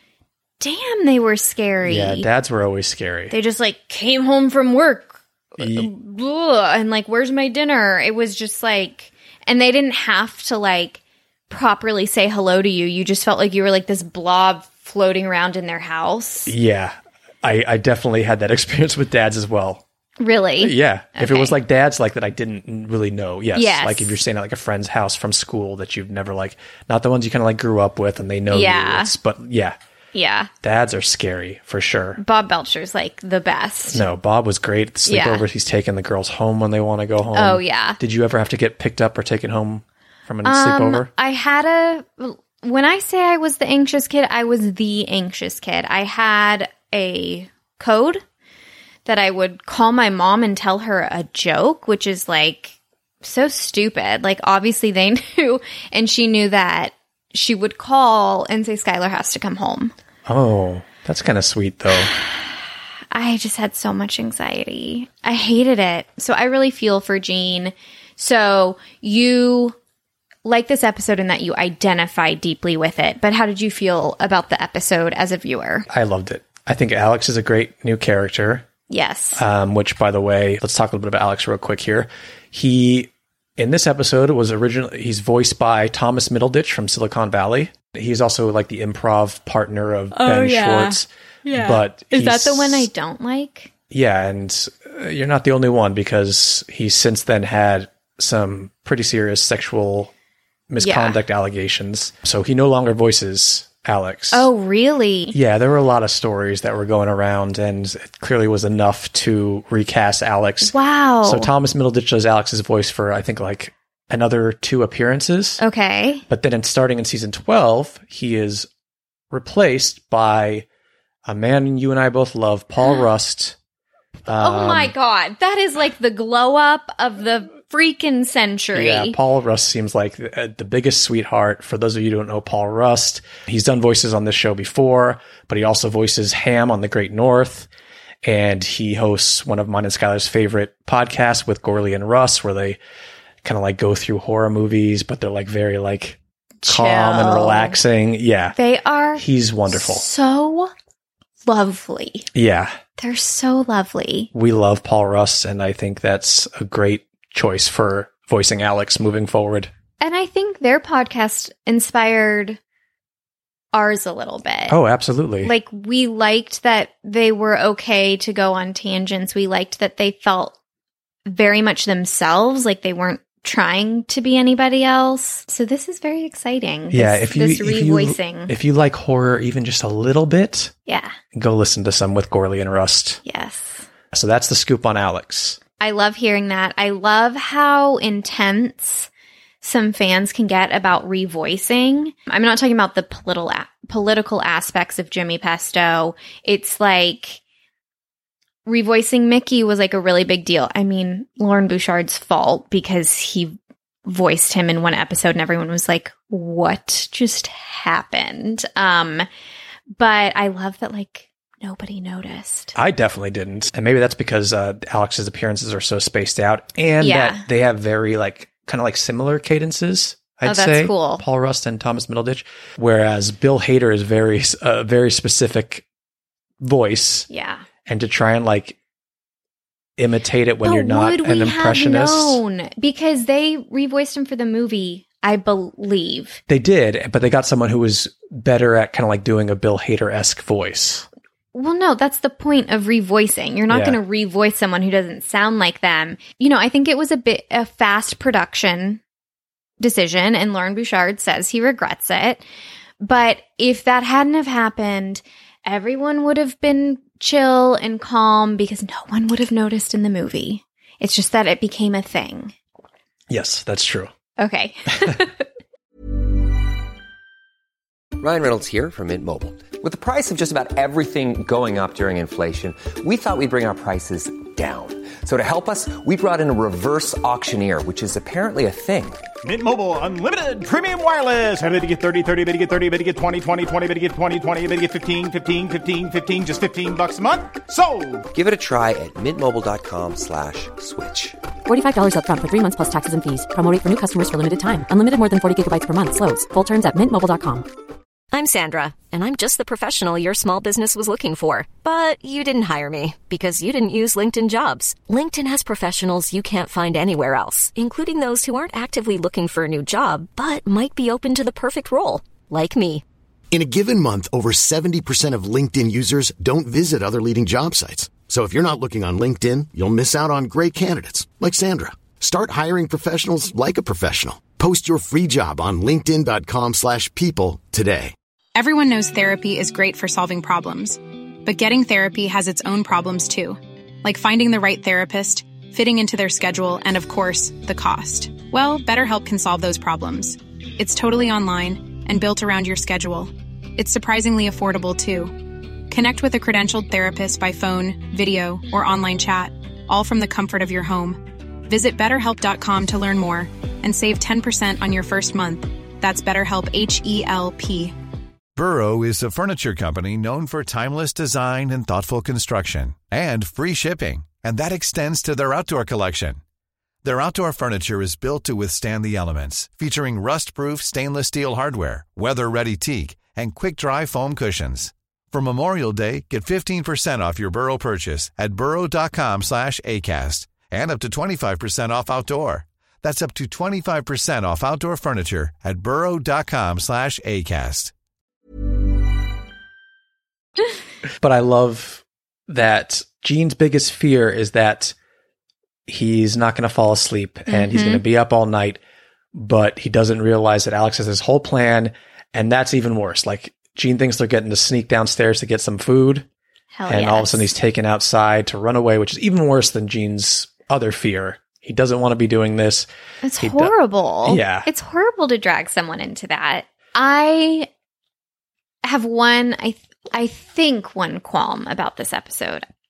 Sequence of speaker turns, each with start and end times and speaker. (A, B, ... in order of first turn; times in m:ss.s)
0:00.6-0:02.3 A
0:01.8-0:03.3 B
0:03.3-0:16.5 A
0:05.6-0:05.9 B
0:16.5-0:19.8 B
0:20.2-0:21.6 A
0:20.6-0:29.8 B
0:23.5-0:24.2 A
0:28.5-0:29.1 A
0:30.1-0:30.5 A
0:30.6-0:32.2 B
0:32.2-0:34.0 A
0:33.9-0:41.1 B
0:35.0-0:35.4 A
0:37.3-0:38.0 A
0:40.4-0:48.2 A
0:49.0-0:59.9 A
1:00.2-1:02.1 B
1:03.1-1:09.8 A
1:10.4-1:15.9 A
1:15.9-1:18.7 B
1:18.9-1:19.4 A
1:19.3-1:32.9 B
1:30.1-1:33.7 A
1:33.9-1:40.1 B
1:40.7-1:44.5 B
1:40.8-1:41.2 A
1:44.3-1:45.4 A
1:45.3-1:55.6 B
1:50.6-1:51.5 A
1:55.6-1:56.2 A
1:56.3-1:58.7 B
1:59.3-2:00.6 B
2:01.2-2:03.6 B
2:04.2-2:04.9 B
2:04.4-2:09.2 A
2:08.7-2:17.7 B
2:18.2-2:22.8 B
2:23.4-2:28.6 B
2:26.6-2:27.8 A
2:28.6-2:30.7 A
2:29.2-2:30.0 B
2:31.4-2:32.3 A
2:32.3-2:32.8 B
2:33.0-2:34.3 A
2:34.3-2:39.7 B
2:40.0-2:42.6 A
2:43.7-2:44.8 A
2:44.7-2:45.5 B
2:45.4-2:50.5 A
2:51.2-2:58.5 A
2:56.9-3:00.7 B
3:00.9-3:01.2 A
3:01.3-3:03.2 B
3:03.2-3:03.9 A
3:04.1-3:05.6 B
3:05.8-3:09.1 A
3:09.6-3:17.4 A
3:18.6-3:29.2 A
3:30.0-3:32.7 A
3:32.7-3:45.8 B
3:37.0-3:37.4 A
3:40.4-3:41.2 A
3:46.6-3:47.3 B
3:47.3-3:47.6 A
3:47.8-3:48.8 B
3:50.0-3:52.4 B
3:50.6-3:56.4 A
3:56.5-4:01.1 B
4:01.5-4:09.0 A
4:03.7-4:04.0 B
4:09.8-4:12.4 A
4:13.0-4:22.5 A
4:23.3-4:24.1 B
4:24.4-4:25.4 A
4:28.2-4:39.2 C
4:39.4-4:48.2 D
4:48.3-4:51.3 C
4:51.7-4:57.6 E
4:58.3-5:13.0 F
5:13.5-5:28.1 G
5:28.5-5:45.4 H
5:45.9-5:57.9 H
5:58.6-6:06.4 I
6:07.0-6:27.9 I
6:31.2-6:34.9 B
6:35.9-6:38.8 B
6:37.5-6:38.0 A
6:39.3-6:46.3 B
6:46.7-6:47.5 A
6:46.9-6:52.9 B
6:53.2-6:57.7 A
6:53.4-6:53.7 B
6:54.2-6:54.7 B
6:58.8-7:02.6 A